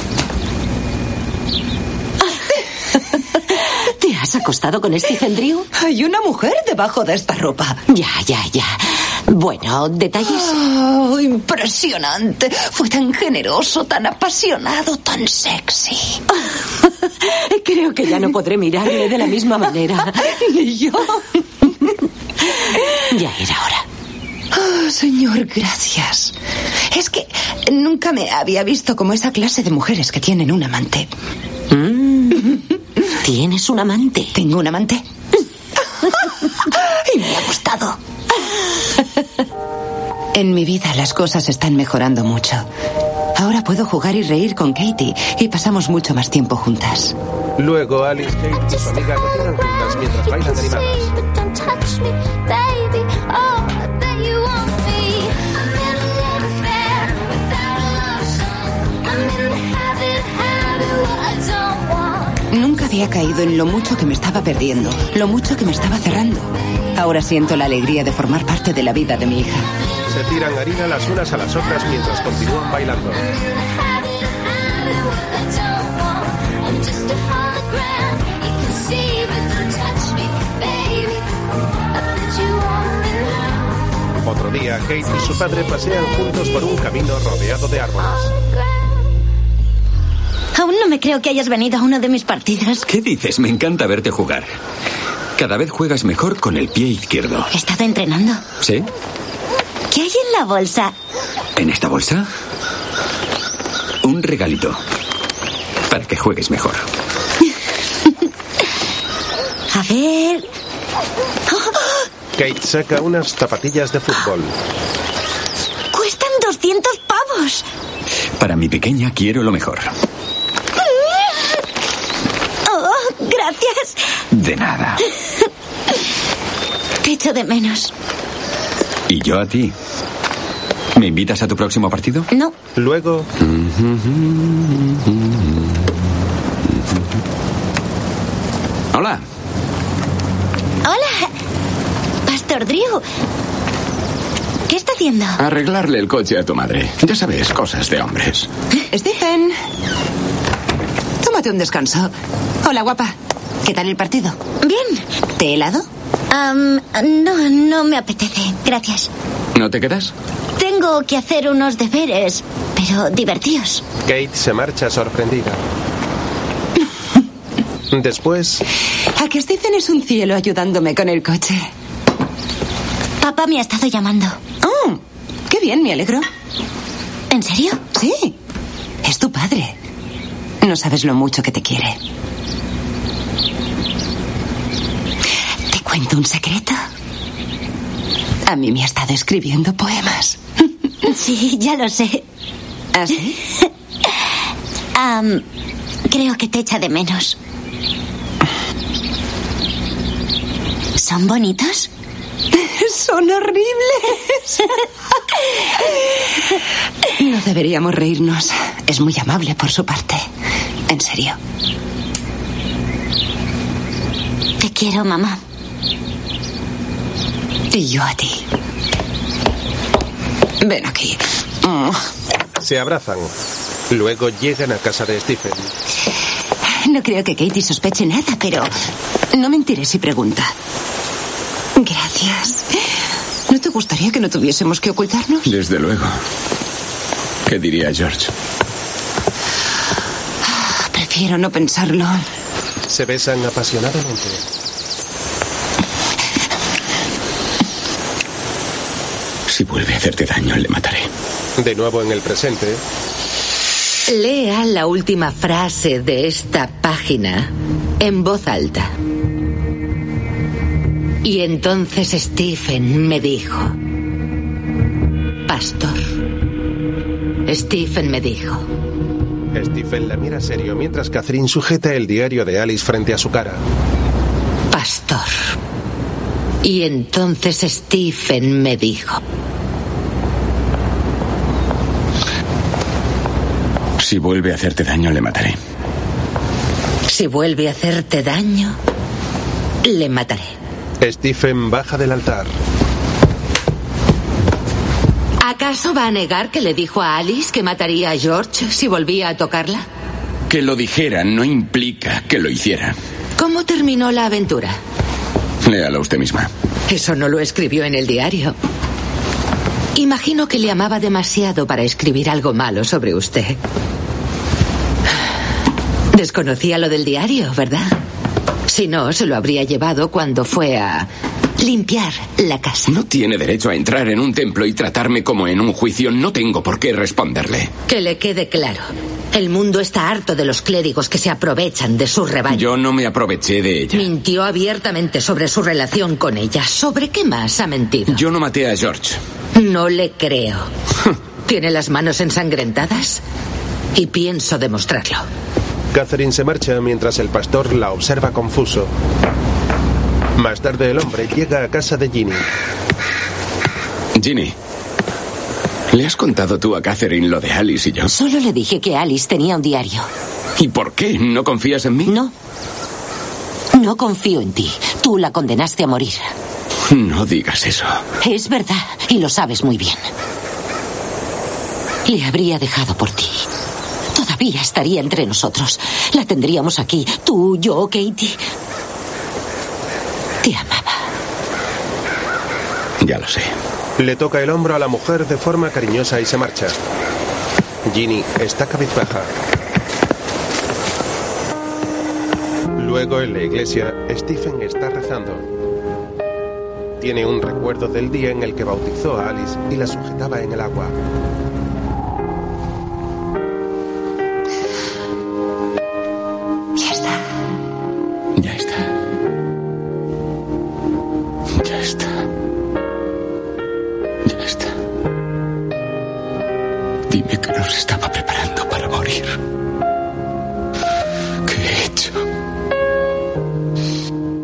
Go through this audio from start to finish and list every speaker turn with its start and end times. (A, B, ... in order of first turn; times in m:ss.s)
0:03.8-0:05.7 A
0:05.8-0:07.8 B
0:07.9-0:10.6 A
0:10.3-0:16.2 B
0:17.2-0:20.4 A
0:20.2-0:21.4 B
0:23.1-0:23.8 A
0:24.5-0:26.4 B
0:26.9-0:31.1 B
0:31.7-0:32.5 A
0:33.2-0:34.3 A
0:34.3-0:35.0 B
0:36.0-0:38.0 B
0:40.3-0:42.7 B
0:43.4-0:47.2 B
0:47.6-0:51.2 C
0:51.6-0:55.2 D
1:01.3-1:01.9 D
1:02.5-1:09.7 B
1:10.1-1:13.3 C
1:16.9-1:21.1 D
1:22.5-1:23.0 D
1:24.2-1:28.4 C
1:30.5-1:32.9 D
1:32.9-1:34.5 E
1:35.4-1:37.5 E
1:37.5-1:38.4 D
1:38.6-1:38.9 E
1:39.9-1:40.9 D
1:41.6-1:42.3 E
1:44.0-1:44.8 E
1:45.9-1:46.8 E
1:49.7-1:50.5 D
1:51.5-1:52.0 D
1:52.4-1:54.5 C
1:55.9-1:57.6 D
1:58.4-1:59.9 E
2:02.7-2:04.0 D
2:04.3-2:05.0 E
2:07.0-2:07.9 D
2:09.1-2:09.8 E
2:11.0-2:12.3 E
2:12.3-2:12.6 D
2:12.8-2:13.3 C
2:13.7-2:14.5 F
2:18.9-2:19.2 F
2:20.8-2:21.3 D
2:22.3-2:23.0 D
2:24.7-2:25.4 D
2:25.4-2:28.5 F
2:28.9-2:29.6 B
2:31.2-2:32.1 B
2:32.6-2:34.4 B
2:34.6-2:35.0 D
2:35.4-2:35.9 B
2:36.3-2:39.1 D
2:39.5-2:40.1 F
2:40.6-2:43.8 D
2:44.0-2:45.6 C
2:47.9-2:48.6 C
2:49.2-2:51.7 B
2:53.2-2:54.4 D
2:54.6-2:56.3 B
2:57.3-2:57.8 D
2:57.9-2:58.4 B
2:59.0-2:59.8 B
3:00.6-3:02.0 B
3:05.7-3:06.9 B
3:08.5-3:10.6 B
3:11.0-3:12.2 D
3:12.9-3:13.4 B
3:15.0-3:15.4 D
3:16.1-3:17.4 D
3:21.0-3:21.9 D
3:22.5-3:24.7 B
3:25.4-3:26.3 B
3:27.2-3:30.2 B
3:30.9-3:31.4 B
3:34.6-3:35.4 D
3:37.7-3:38.4 B
3:40.6-3:42.0 B
3:42.6-3:43.3 C
3:43.9-3:45.7 C
3:46.7-3:48.7 B
3:49.3-3:50.5 B
3:51.8-3:52.7 B
3:53.5-3:55.5 B
3:55.4-3:56.2 F
3:57.5-3:58.3 F
4:00.4-4:02.2 B
4:02.9-4:04.4 C
4:09.5-4:11.1 F
4:11.6-4:12.8 C
4:14.1-4:18.9 G
4:21.2-4:23.7 G
4:25.5-4:26.2 G
4:27.5-4:28.6 G
4:29.5-4:33.6 C
4:34.7-4:35.5 G
4:36.6-4:39.2 G
4:44.0-4:45.6 F
4:47.1-4:48.8 G
4:49.8-4:50.5 G
4:51.0-4:52.5 C
4:55.4-4:59.8 G
5:00.5-5:03.0 F
5:03.4-5:04.8 G
5:05.6-5:06.5 F
5:06.9-5:08.6 G
5:10.0-5:13.6 G
5:16.1-5:17.9 G
5:18.7-5:23.0 G
5:22.9-5:27.7 F
5:27.9-5:32.7 G
5:32.5-5:34.1 F
5:33.9-5:38.2 G
5:38.1-5:39.2 F
5:39.6-5:40.7 G
5:41.4-5:43.2 G
5:44.0-5:45.2 G
5:45.9-5:48.9 C
5:50.4-5:52.5 C
5:54.2-5:54.6 F
5:55.9-5:58.1 F
5:58.1-6:00.1 A
6:00.6-6:02.1 F
6:02.1-6:02.3 A
6:03.7-6:06.2 A
6:06.9-6:08.0 F
6:08.2-6:10.0 A
6:12.0-6:13.4 A
6:14.1-6:18.4 A
6:20.4-6:21.0 A
6:23.0-6:23.5 F
6:24.0-6:26.8 C
6:27.9-6:29.3 C
6:32.8-6:35.5 C
6:37.0-6:41.0 C
6:46.8-6:47.2 B
6:48.4-6:48.9 F
6:51.6-6:52.1 F
6:54.2-6:54.7 F
6:57.1-6:59.4 F
7:01.4-7:02.2 F